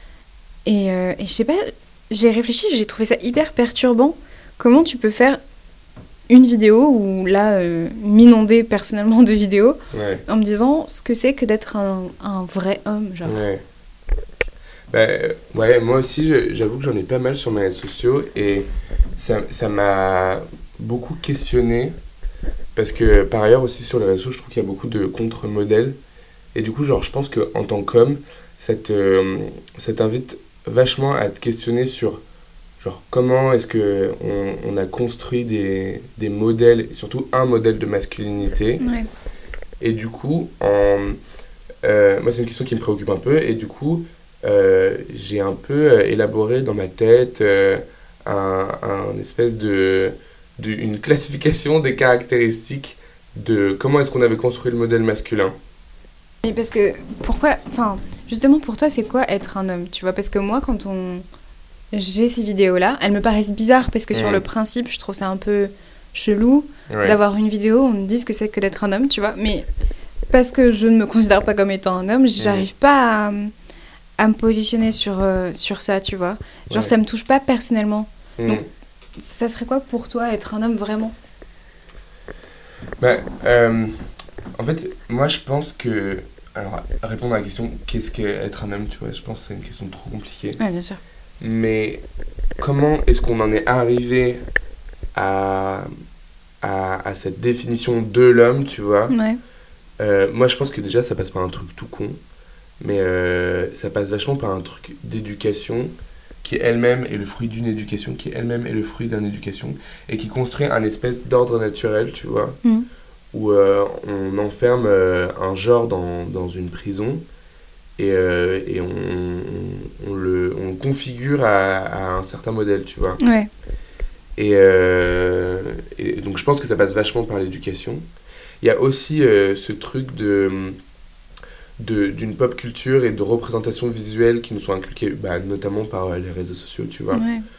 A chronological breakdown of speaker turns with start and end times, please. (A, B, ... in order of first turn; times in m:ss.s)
0:00.6-0:05.4 A
0:06.3-0:13.4 A
0:09.9-0:10.2 B
0:13.2-0:13.6 B
0:14.9-0:22.0 B
0:22.7-0:26.0 B
0:26.5-0:32.2 B
0:32.8-0:38.8 B
0:38.8-0:39.1 A
0:39.8-0:41.2 B
0:41.8-0:55.6 B
0:56.4-1:01.2 A
1:01.9-1:09.7 A
1:04.1-1:04.4 B
1:06.9-1:07.2 B
1:10.3-1:13.5 A
1:12.4-1:12.6 B
1:14.2-1:18.6 A
1:16.7-1:16.9 B
1:18.4-1:18.7 B
1:19.2-1:21.1 A
1:23.0-1:30.6 B
1:30.6-1:31.0 A
1:31.4-1:32.0 B
1:32.6-1:34.4 B
1:35.1-1:35.9 B
1:36.6-1:39.1 B
1:39.1-1:39.4 A
1:40.0-1:42.2 B
1:42.8-1:45.9 B
1:46.4-1:52.6 B
1:53.3-1:57.2 B
1:58.0-2:03.2 B
2:03.2-2:03.5 A
2:04.4-2:08.0 B
2:08.6-2:10.8 B
2:11.8-2:17.2 B
2:17.1-2:17.4 A